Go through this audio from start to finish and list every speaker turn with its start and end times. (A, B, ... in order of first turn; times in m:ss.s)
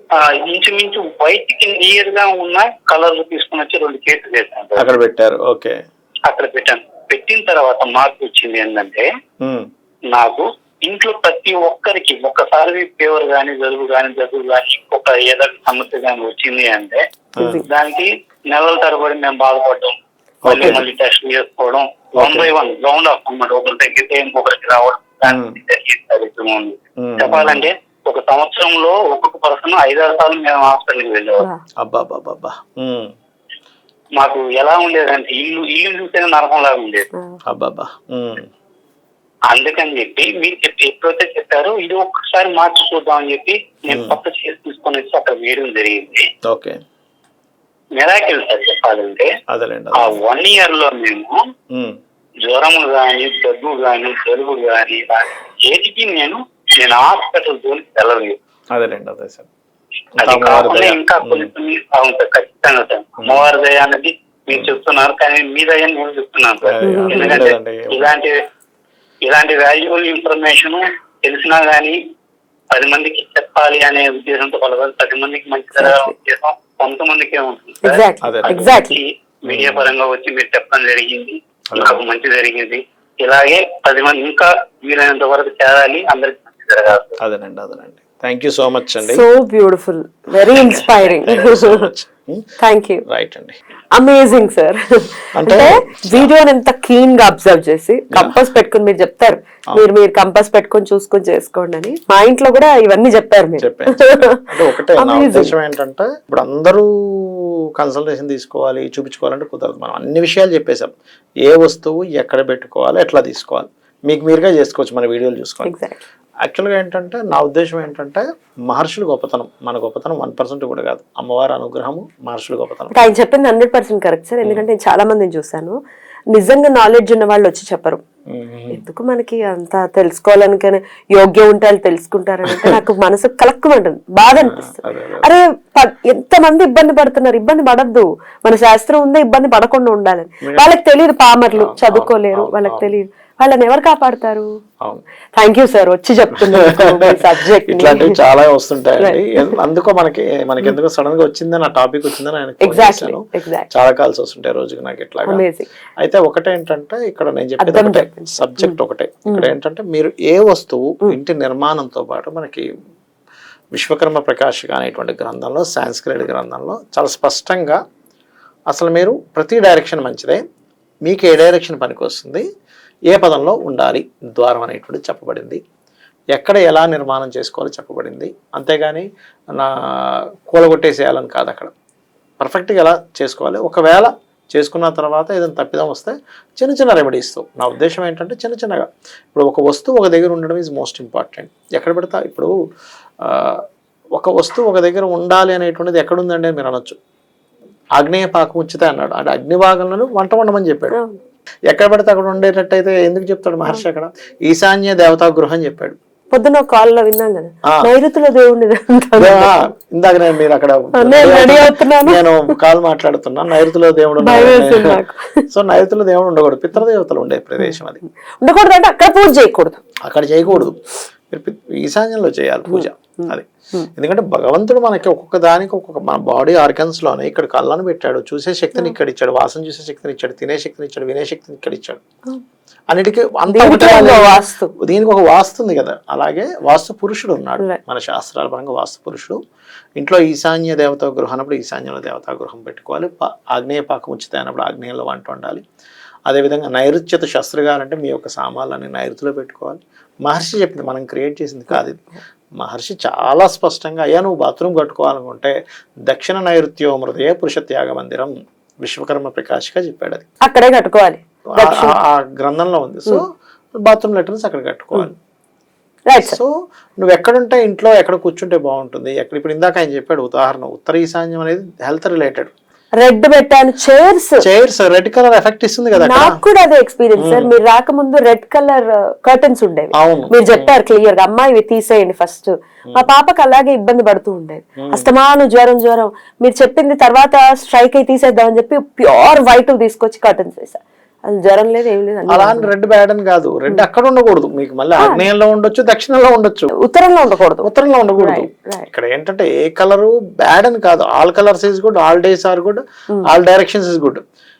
0:00.2-0:04.9 A
0:04.8-0:05.8 B
0:06.3-0:09.1 A
0:09.4-0:09.7 B
0:10.1-0:17.0 A
0:17.4-0:17.6 B
0:17.4-0:17.6 C
0:17.6-0:31.5 A
0:20.4-0:20.8 B
0:22.2-0:22.5 B
0:25.2-0:25.6 B
0:27.0-0:27.7 B
0:31.8-0:33.1 B
0:34.2-0:37.1 A
0:37.5-0:38.5 B
0:39.5-0:46.2 A
0:43.9-0:44.2 B
0:46.4-0:46.8 B
0:48.0-0:49.3 A
0:49.5-0:50.2 B
0:50.0-0:51.4 A
0:52.4-0:58.4 A
0:58.7-0:59.5 B
1:00.2-1:01.5 B
1:00.2-1:08.3 A
1:03.2-1:03.5 B
1:06.6-1:08.1 B
1:06.8-1:07.4 C
1:09.3-1:12.0 A
1:12.7-1:27.2 A
1:15.8-1:16.1 C
1:17.8-1:19.0 C
1:18.2-1:18.8 B
1:19.5-1:19.9 B
1:21.7-1:22.0 B
1:27.2-1:29.2 B
1:29.0-1:31.9 C
1:30.4-1:32.4 B
1:32.6-1:33.0 C
1:33.0-1:33.6 B
1:33.9-1:45.5 C
1:35.3-1:36.3 B
1:38.1-1:38.4 B
1:43.6-1:50.9 B
1:51.4-1:55.8 B
1:55.6-1:56.0 C
1:56.4-2:03.1 B
2:02.9-2:05.8 C
2:06.3-2:08.0 C
2:08.3-2:08.8 B
2:08.7-2:24.5 C
2:12.5-2:12.8 B
2:14.2-2:15.3 B
2:20.4-2:20.7 B
2:21.5-2:22.9 B
2:25.3-2:28.2 C
2:26.4-2:27.1 B
2:27.6-2:35.4 B
2:29.0-2:29.5 C
2:32.6-2:33.7 C
2:35.2-2:35.7 C
2:36.0-2:42.6 B
2:37.6-2:39.5 C
2:43.7-2:47.8 B
2:48.7-2:50.4 B
2:51.0-2:52.4 B
2:53.1-2:55.6 B
2:56.3-3:01.7 B
3:02.4-3:12.5 B
3:13.2-3:13.6 B
3:14.1-3:17.0 B
3:18.0-3:21.0 B
3:20.9-3:21.2 C
3:21.7-3:26.0 B
3:26.3-3:29.6 C
3:27.6-3:27.9 B
3:29.1-3:38.0 B
3:30.9-3:32.5 C
3:34.2-3:35.5 C
3:38.4-3:39.8 C
3:40.0-3:40.8 B
3:41.3-3:52.0 B
3:42.7-3:43.9 C
3:52.9-3:59.4 B
3:53.5-3:54.7 C
4:00.0-4:05.6 B
4:06.3-4:12.0 B
4:12.6-4:15.6 B
4:16.1-4:20.2 B
4:20.4-4:22.0 C
4:21.6-4:23.2 B
4:23.8-4:25.2 B
4:26.1-4:26.4 C
4:26.2-4:32.5 B
4:33.0-4:34.4 C
4:34.4-4:36.4 B
4:35.9-4:52.7 C
4:37.2-4:37.5 B
4:40.0-4:40.7 B
4:44.8-4:45.1 B
4:52.3-4:56.7 B
4:55.0-4:55.2 C
4:56.8-4:58.9 C
4:57.6-5:04.2 B